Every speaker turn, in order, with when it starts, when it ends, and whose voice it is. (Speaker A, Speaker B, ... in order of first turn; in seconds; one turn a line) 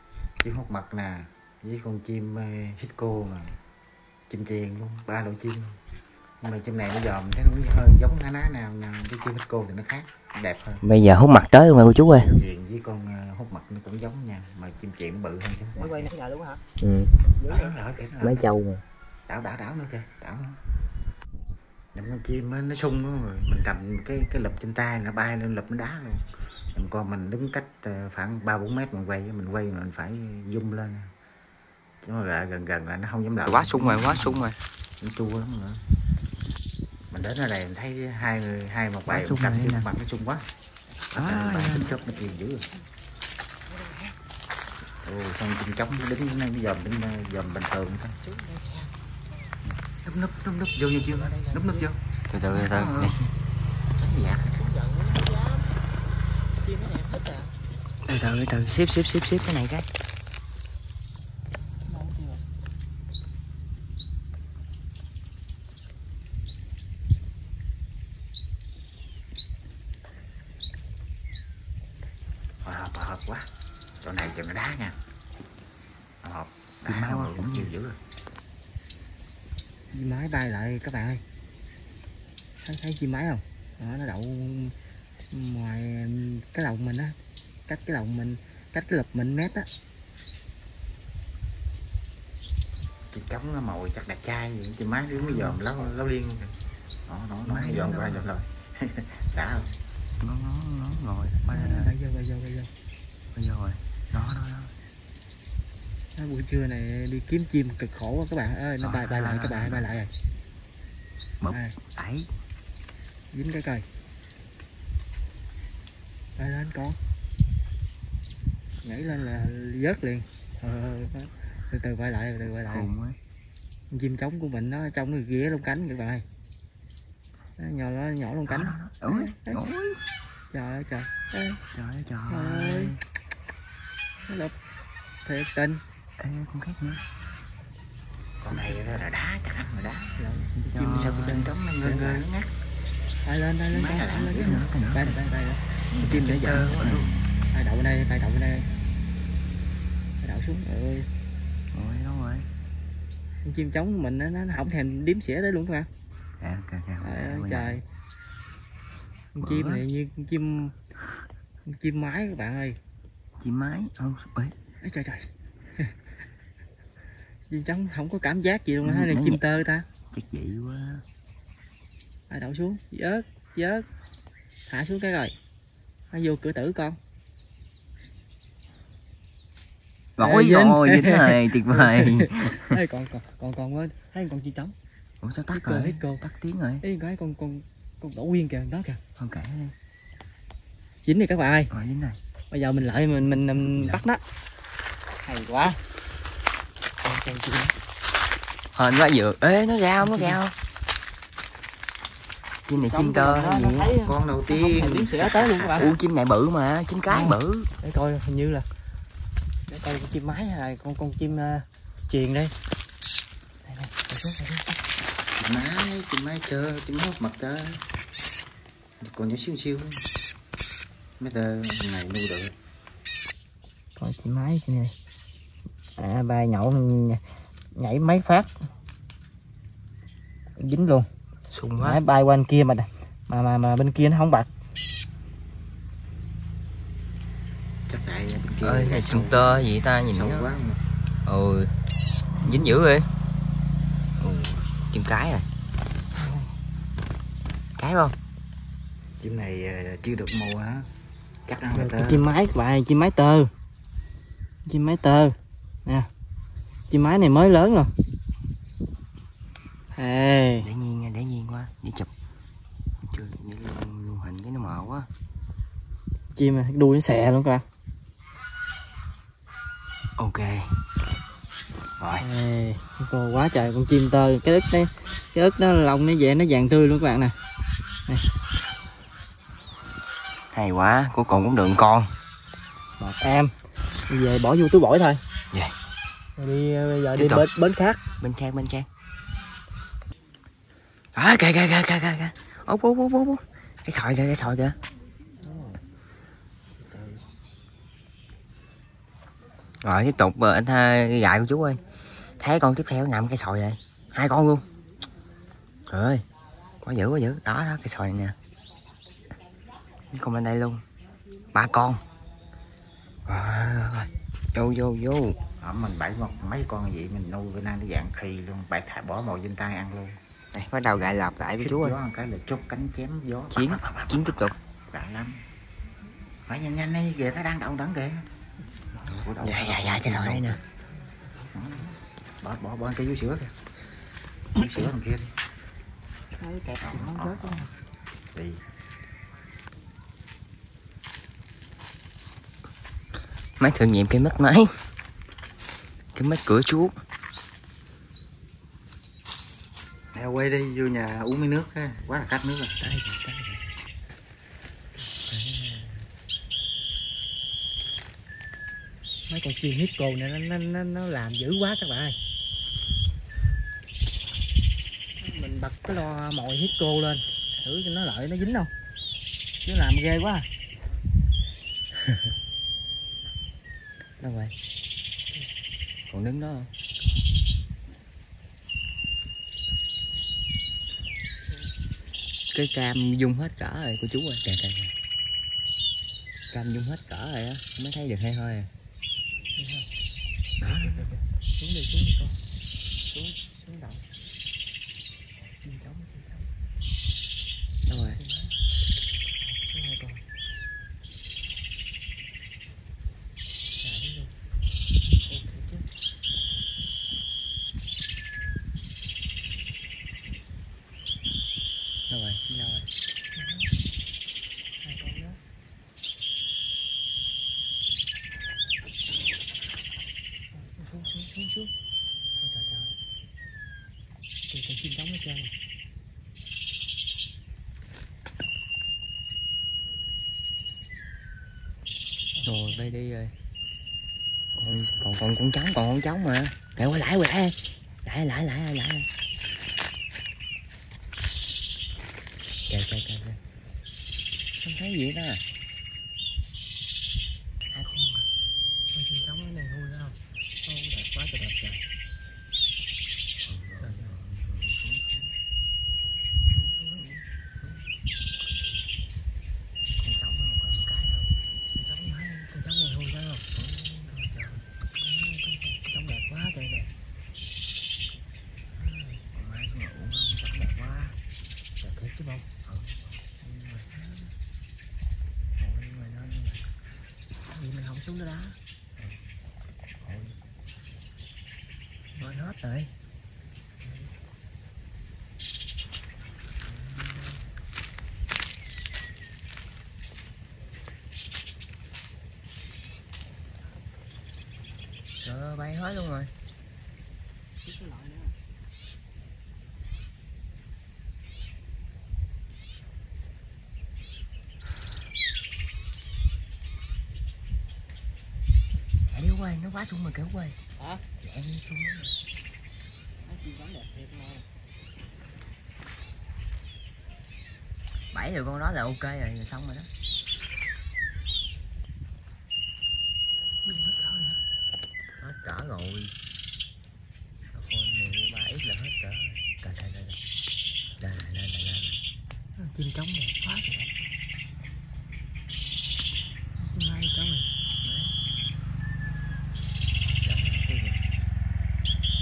Speaker A: 0.4-3.6
Speaker A: 4.3-5.8
Speaker A: 6.4-10.8
Speaker B: 10.8-12.4
Speaker A: 12.2-16.1
Speaker C: 15.8-16.6
Speaker B: 16.8-17.1
Speaker C: 17.4-17.8
Speaker A: 17.5-18.5
Speaker B: 18.2-18.8
Speaker A: 19.3-20.6
Speaker A: 21.9-31.1
Speaker A: 32.0-34.4
Speaker B: 33.4-34.6
Speaker A: 35.0-35.8
Speaker A: 37.1-40.4
Speaker B: 39.1-39.9
Speaker B: 41.1-41.9
Speaker A: 41.1-42.6
Speaker C: 42.1-42.4
Speaker C: 43.7-44.1
Speaker A: 45.0-48.2
Speaker C: 48.2-48.9
Speaker A: 50.0-52.0
Speaker C: 51.0-51.9
Speaker B: 52.3-53.3
Speaker A: 52.5-53.1
Speaker A: 54.0-54.6
Speaker C: 54.5-55.7
Speaker C: 56.6-57.5
Speaker B: 58.1-59.9
Speaker C: 61.9-62.4
Speaker A: 72.6-73.5
Speaker A: 74.0-75.0
Speaker A: 76.2-78.0
Speaker B: 76.8-77.8
Speaker C: 79.9-81.2
Speaker C: 82.6-84.7
Speaker C: 85.3-87.2
Speaker C: 87.7-89.7
Speaker A: 93.1-99.7
Speaker B: 95.3-95.6
Speaker B: 97.5-98.0
Speaker C: 97.6-98.2
Speaker B: 100.2-101.9
Speaker C: 101.5-102.7
Speaker B: 103.3-104.7
Speaker C: 106.2-110.1
Speaker B: 108.8-109.9
Speaker B: 111.4-112.3
Speaker C: 113.3-113.8
Speaker C: 116.4-117.0
Speaker C: 118.8-122.9
Speaker B: 122.5-123.2
Speaker C: 123.9-126.2
Speaker C: 127.6-129.6
Speaker B: 128.5-130.0
Speaker C: 130.5-131.6
Speaker B: 131.7-133.0
Speaker C: 132.3-132.9
Speaker C: 134.3-134.5
Speaker C: 135.2-135.8
Speaker B: 136.2-137.0
Speaker A: 138.4-140.2
Speaker C: 138.5-139.0
Speaker C: 140.2-142.2
Speaker B: 140.5-142.1
Speaker A: 140.9-142.5
Speaker C: 143.2-146.7
Speaker A: 143.7-144.6
Speaker B: 144.0-145.2
Speaker B: 145.9-147.1
Speaker A: 146.1-147.2
Speaker C: 147.5-148.7
Speaker C: 150.2-151.1
Speaker B: 151.7-152.5
Speaker C: 153.4-155.9
Speaker B: 156.4-157.8
Speaker C: 157.0-157.8
Speaker C: 159.3-160.8
Speaker B: 159.4-159.8
Speaker C: 161.7-162.8
Speaker B: 163.4-164.6
Speaker C: 164.8-165.9
Speaker C: 167.5-169.9
Speaker B: 168.8-169.4
Speaker B: 170.1-171.0
Speaker C: 172.3-173.9
Speaker C: 174.7-175.3
Speaker C: 176.1-177.0
Speaker B: 180.2-182.8
Speaker C: 180.2-184.8
Speaker B: 185.2-186.8
Speaker C: 185.5-186.2
Speaker C: 186.8-189.0
Speaker B: 189.2-189.8
Speaker C: 191.1-191.7
Speaker B: 191.7-192.2
Speaker C: 192.5-194.2
Speaker B: 193.8-194.0
Speaker C: 195.3-195.8
Speaker C: 197.0-197.8
Speaker B: 198.7-200.5
Speaker C: 200.0-200.4
Speaker B: 202.7-203.9
Speaker C: 202.8-205.8
Speaker A: 204.0-206.0
Speaker B: 205.8-207.7
Speaker C: 207.1-208.7
Speaker C: 209.7-212.5
Speaker C: 213.7-214.8
Speaker A: 215.4-217.8
Speaker A: 219.0-220.1
Speaker A: 221.2-222.5
Speaker C: 224.0-224.9
Speaker C: 226.0-227.2
Speaker C: 227.8-228.5
Speaker C: 230.6-231.1
Speaker B: 231.5-232.0
Speaker C: 231.8-234.5
Speaker A: 237.9-240.8
Speaker B: 238.6-240.5
Speaker B: 241.3-241.7
Speaker C: 242.4-242.7
Speaker B: 242.4-243.1
Speaker B: 244.2-245.5
Speaker C: 246.2-246.5
Speaker B: 247.8-248.2
Speaker A: 249.2-250.9
Speaker A: 251.5-252.3
Speaker C: 251.7-253.5
Speaker C: 254.7-255.3
Speaker C: 256.9-257.9
Speaker C: 259.9-260.7
Speaker B: 260.6-262.1
Speaker B: 263.1-265.1
Speaker C: 266.4-267.6
Speaker B: 270.2-270.7
Speaker B: 272.0-272.3
Speaker C: 272.2-277.4
Speaker B: 280.5-282.1
Speaker C: 283.0-283.5
Speaker C: 284.1-285.2
Speaker C: 286.4-288.0
Speaker B: 287.2-287.5
Speaker B: 288.2-288.9
Speaker B: 291.2-294.8
Speaker C: 295.4-295.8
Speaker C: 296.9-297.2
Speaker B: 299.8-301.8
Speaker B: 302.4-304.6
Speaker B: 305.9-306.2
Speaker B: 306.8-308.4
Speaker B: 310.1-310.8
Speaker B: 311.5-312.0
Speaker B: 313.3-315.4
Speaker A: 315.6-320.2
Speaker B: 320.5-322.0
Speaker A: 321.6-325.4
Speaker B: 323.5-324.6
Speaker A: 326.5-328.3
Speaker C: 328.9-329.3
Speaker A: 329.1-330.6
Speaker B: 329.4-330.6
Speaker C: 331.1-331.8
Speaker A: 331.5-333.5
Speaker A: 334.6-335.3
Speaker C: 334.6-334.9
Speaker C: 336.4-337.7
Speaker A: 336.9-337.4
Speaker A: 338.4-338.6
Speaker B: 343.6-344.7
Speaker B: 346.1-346.9
Speaker A: 350.1-352.8
Speaker B: 352.8-353.6
Speaker B: 355.3-356.1
Speaker C: 359.3-362.2
Speaker C: 365.2-368.7
Speaker C: 369.6-370.5
Speaker B: 374.2-374.5
Speaker B: 376.1-376.7
Speaker B: 382.5-384.9
Speaker B: 386.5-388.7
Speaker C: 389.6-389.9
Speaker B: 390.6-391.1
Speaker C: 390.6-392.4
Speaker C: 393.1-394.0
Speaker C: 395.6-396.5
Speaker B: 397.9-398.2
Speaker C: 397.9-398.6
Speaker C: 399.4-400.2
Speaker C: 403.8-404.3
Speaker C: 405.2-405.9
Speaker B: 412.1-412.9
Speaker C: 413.4-413.8
Speaker C: 414.8-415.4
Speaker C: 420.6-421.7
Speaker C: 422.4-422.9
Speaker C: 424.5-425.5
Speaker C: 432.4-432.9
Speaker B: 432.4-433.3
Speaker B: 434.6-439.1
Speaker B: 442.7-443.4
Speaker B: 444.6-445.4
Speaker B: 447.7-448.3
Speaker C: 448.9-451.8
Speaker B: 453.4-455.3
Speaker C: 453.8-454.1
Speaker C: 456.5-457.2
Speaker B: 460.0-461.3
Speaker C: 461.8-463.5
Speaker B: 463.5-464.6
Speaker C: 464.9-466.9
Speaker C: 468.8-469.2
Speaker B: 469.3-471.2
Speaker C: 471.8-472.5
Speaker B: 472.7-473.9
Speaker C: 473.9-474.3
Speaker B: 475.6-476.7
Speaker C: 477.5-478.6
Speaker B: 480.0-480.4
Speaker C: 482.2-482.5
Speaker B: 482.2-482.9
Speaker C: 483.8-484.1
Speaker B: 486.7-487.4
Speaker B: 495.2-496.3
Speaker C: 497.6-498.4
Speaker B: 509.1-510.6
Speaker C: 510.8-511.0
Speaker B: 511.2-512.2
Speaker C: 513.2-514.5
Speaker B: 518.1-519.9
Speaker C: 523.6-524.4
Speaker B: 525.2-526.1
Speaker B: 527.5-530.2
Speaker B: 531.0-532.0
Speaker C: 532.6-533.9
Speaker C: 536.6-537.5
Speaker B: 537.8-538.1
Speaker B: 540.2-541.0